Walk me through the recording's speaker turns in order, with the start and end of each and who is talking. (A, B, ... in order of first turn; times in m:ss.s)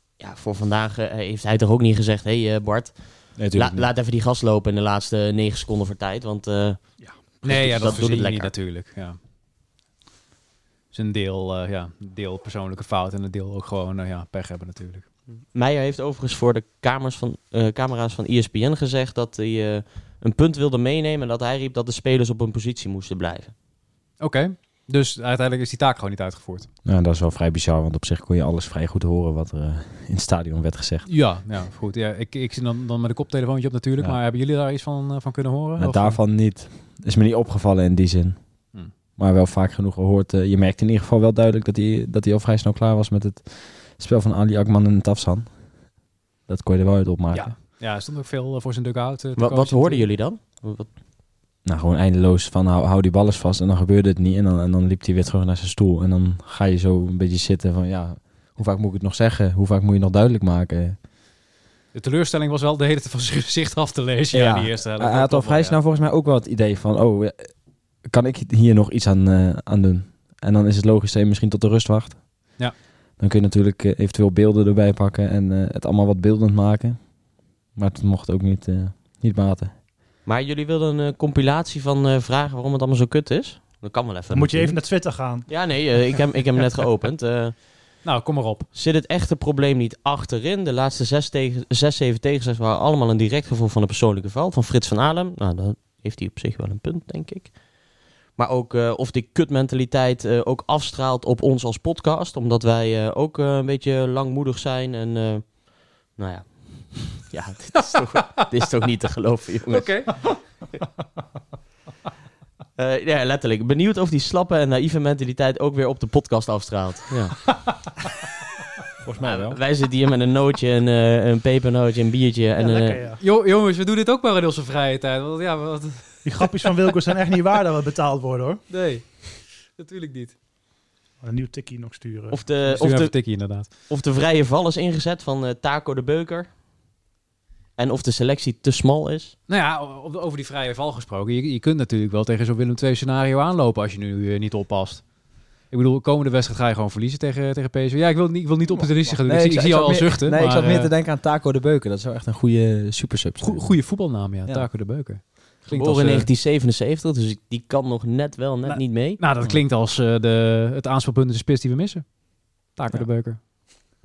0:00.2-0:08.5 A
0:03.4-0:03.8 B
0:07.4-0:09.2 C
0:10.9-0:15.1 C
0:15.5-0:23.5 A
0:24.2-0:26.7 C
0:26.8-0:31.1 B
0:31.1-0:36.2 C
0:35.8-0:38.6 B
0:39.2-0:45.6 B
0:46.5-0:47.6 B
0:47.3-0:50.1 C
0:49.4-0:50.9 A
0:51.6-1:01.0 B
1:01.9-1:05.8 C
1:04.3-1:12.5 B
1:13.2-1:17.1 B
1:17.7-1:19.7 B
1:20.2-1:24.8 A
1:24.3-1:25.5 D
1:25.5-1:27.6 A
1:28.0-1:28.7 C
1:28.7-1:37.6 A
1:38.4-1:50.3 A
1:47.8-1:48.5 C
1:49.7-1:50.2 C
1:52.8-1:57.5 A
1:59.0-1:59.6 B
1:59.2-2:03.0 A
2:02.6-2:03.2 D
2:03.2-2:06.5 C
2:06.2-2:08.6 D
2:08.7-2:10.4 C
2:11.2-2:12.8 D
2:12.3-2:16.5 A
2:12.7-2:13.7 C
2:17.8-2:19.4 A
2:19.5-2:25.1 C
2:25.7-2:30.9 C
2:29.2-2:34.7 B
2:33.4-2:36.3 C
2:35.7-2:39.2 A
2:39.2-2:43.4 C